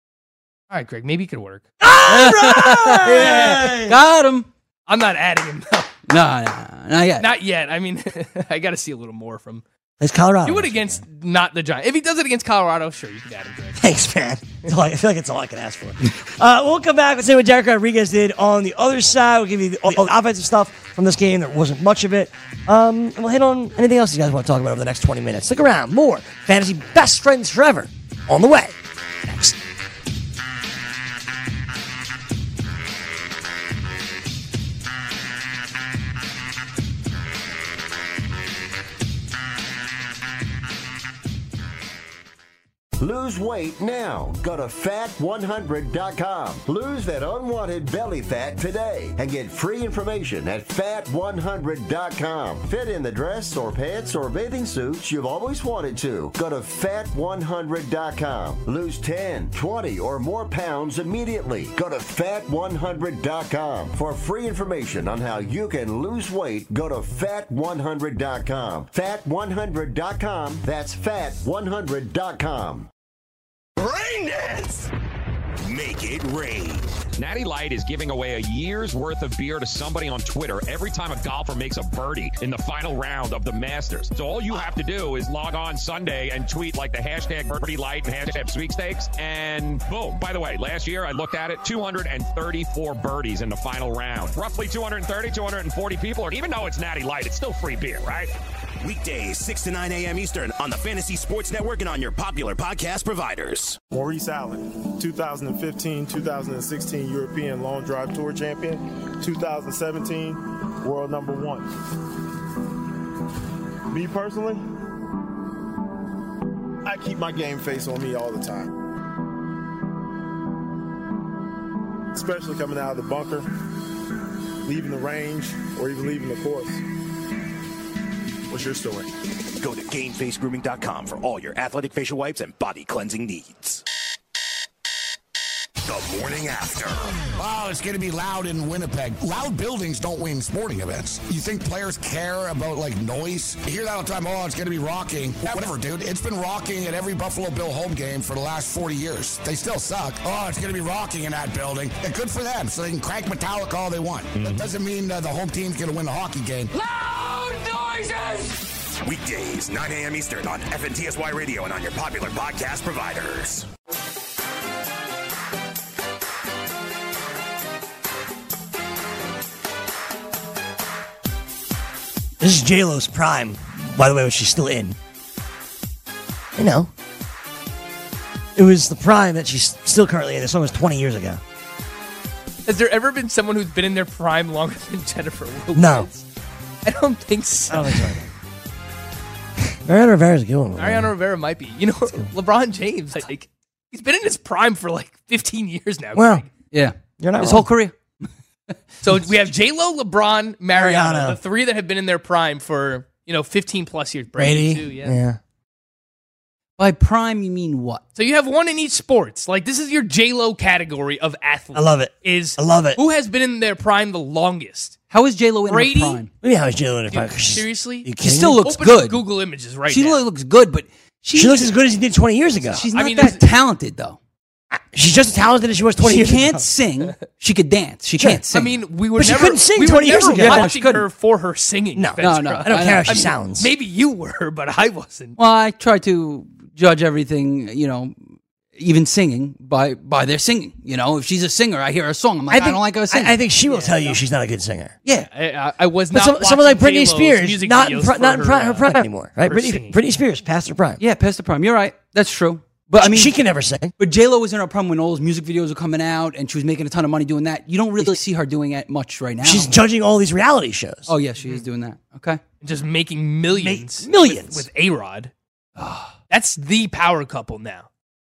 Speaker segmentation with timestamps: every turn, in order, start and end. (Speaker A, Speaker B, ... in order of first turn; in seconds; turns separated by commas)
Speaker A: 0.7-1.6, Speaker B: 1.8-4.0, Speaker C: 2.0-4.5, Speaker A: 3.0-3.6, Speaker A: 4.9-5.9, Speaker C: 6.1-7.3, Speaker A: 7.2-9.6, Speaker B: 10.0-11.0, Speaker A: 10.4-13.8, Speaker B: 13.8-29.6, Speaker D: 43.0-72.9, Speaker E: 73.8-74.6, Speaker E: 75.6-76.9, Speaker F: 77.2-98.3, Speaker E: 98.8-103.8, Speaker G: 103.9-111.7, Speaker G: 113.9-114.6, Speaker G: 116.8-118.7, Speaker G: 122.1-123.5, Speaker G: 124.6-126.8, Speaker G: 128.5-129.1, Speaker E: 129.6-133.8, Speaker E: 135.8-137.3, Speaker H: 137.3-156.7, Speaker E: 159.0-163.7, Speaker B: 172.4-174.9, Speaker B: 176.6-176.9, Speaker B: 178.6-181.4, Speaker A: 182.7-186.2, Speaker B: 185.7-186.1, Speaker A: 186.8-188.2, Speaker B: 187.7-188.3, Speaker B: 189.7-191.1, Speaker A: 190.7-196.5, Speaker B: 196.1-196.4, Speaker C: 196.7-198.2, Speaker B: 197.2-197.7, Speaker A: 199.0-205.2, Speaker B: 200.7-201.4, Speaker B: 204.3-205.4, Speaker C: 206.8-208.0, Speaker A: 208.2-214.9, Speaker B: 211.7-213.0, Speaker C: 215.1-216.3, Speaker A: 215.7-216.2, Speaker B: 216.4-218.6, Speaker A: 217.1-220.2, Speaker C: 218.2-219.2, Speaker C: 219.9-221.7, Speaker B: 221.3-222.8, Speaker C: 222.7-224.2, Speaker A: 222.9-223.4, Speaker B: 224.7-226.6, Speaker C: 226.0-228.8, Speaker A: 228.5-235.3, Speaker B: 229.2-230.9, Speaker C: 230.3-231.1, Speaker B: 231.9-233.7, Speaker C: 232.2-233.3, Speaker C: 235.4-238.2, Speaker C: 238.7-243.3, Speaker B: 242.5-244.9, Speaker A: 243.6-244.2, Speaker A: 245.2-250.0, Speaker B: 246.1-251.0, Speaker C: 251.0-253.3, Speaker B: 253.0-253.9, Speaker C: 254.0-259.7, Speaker B: 259.4-261.1, Speaker C: 261.1-262.4, Speaker A: 262.6-265.3, Speaker B: 263.5-264.7, Speaker C: 265.8-266.1, Speaker A: 266.3-267.9